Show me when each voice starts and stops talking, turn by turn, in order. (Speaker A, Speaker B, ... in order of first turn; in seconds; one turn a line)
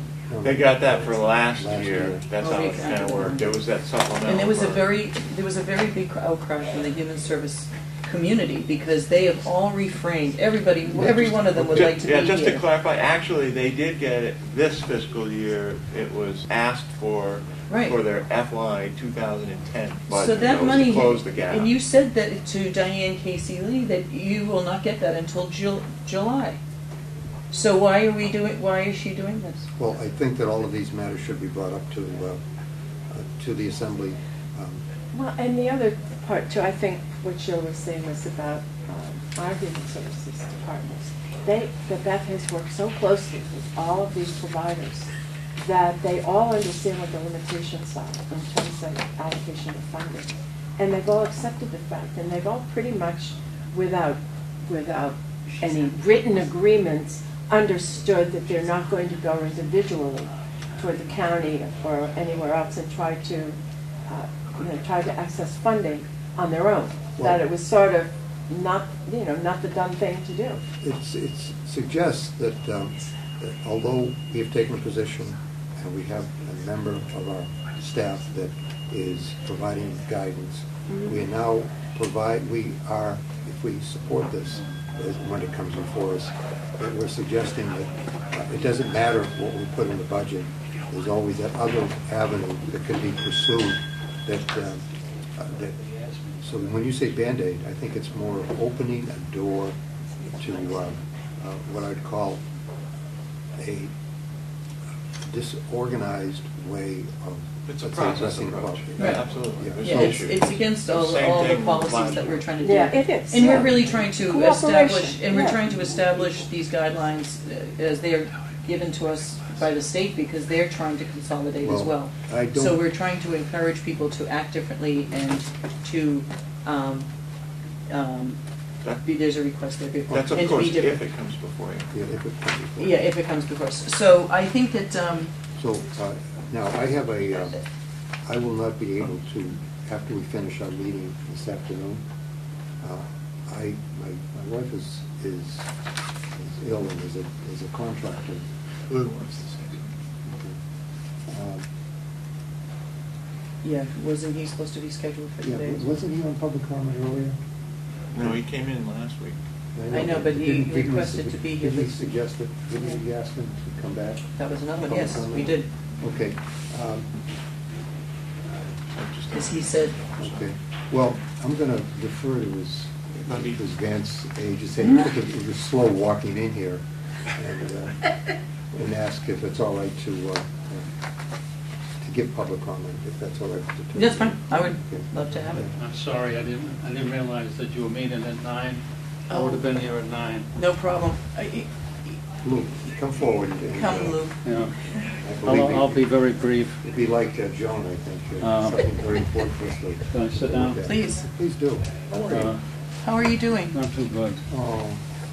Speaker A: 0.3-2.3
Speaker B: 0.4-5.0
Speaker C: 2.4-3.5
Speaker C: 4.2-12.7
Speaker A: 10.9-11.9
Speaker B: 11.2-21.8
Speaker C: 17.7-18.0
Speaker C: 20.1-26.6
Speaker C: 27.5-29.7
Speaker A: 29.8-32.4
Speaker A: 33.1-34.8
Speaker D: 35.1-63.6
Speaker D: 64.1-70.6
Speaker A: 70.8-94.8
Speaker A: 95.4-95.8
Speaker E: 95.9-96.4
Speaker A: 96.4-102.4
Speaker A: 103.6-103.9
Speaker A: 105.2-110.3
Speaker B: 107.6-112.5
Speaker C: 109.0-109.2
Speaker C: 109.8-127.1
Speaker D: 112.6-115.8
Speaker A: 121.6-122.8
Speaker C: 127.9-128.4
Speaker B: 128.8-129.1
Speaker C: 129.0-131.0
Speaker B: 130.1-131.9
Speaker A: 131.9-133.0
Speaker C: 132.8-135.3
Speaker A: 135.6-137.6
Speaker A: 138.2-142.0
Speaker A: 142.8-145.7
Speaker A: 146.3-148.4
Speaker B: 148.9-149.9
Speaker A: 150.2-150.6
Speaker A: 151.3-151.7
Speaker C: 153.6-155.9
Speaker A: 155.4-157.4
Speaker B: 158.1-159.4
Speaker A: 159.8-164.3
Speaker C: 159.9-162.2
Speaker C: 164.4-165.7
Speaker A: 164.8-167.1
Speaker B: 168.9-170.5
Speaker C: 169.3-169.9
Speaker A: 170.2-176.8
Speaker B: 173.3-173.6
Speaker A: 177.3-178.1
Speaker A: 178.7-180.9
Speaker A: 182.0-185.7
Speaker C: 183.9-185.7
Speaker E: 185.7-190.5
Speaker C: 189.3-189.6
Speaker C: 190.6-192.2
Speaker A: 192.4-194.2
Speaker C: 193.8-194.4
Speaker E: 194.4-194.7
Speaker A: 195.2-196.1
Speaker E: 195.4-196.8
Speaker A: 196.8-202.6
Speaker E: 198.4-198.8
Speaker E: 200.1-200.9
Speaker C: 200.9-201.3
Speaker E: 202.3-202.6
Speaker C: 203.0-203.8
Speaker E: 203.7-204.4
Speaker A: 204.5-205.0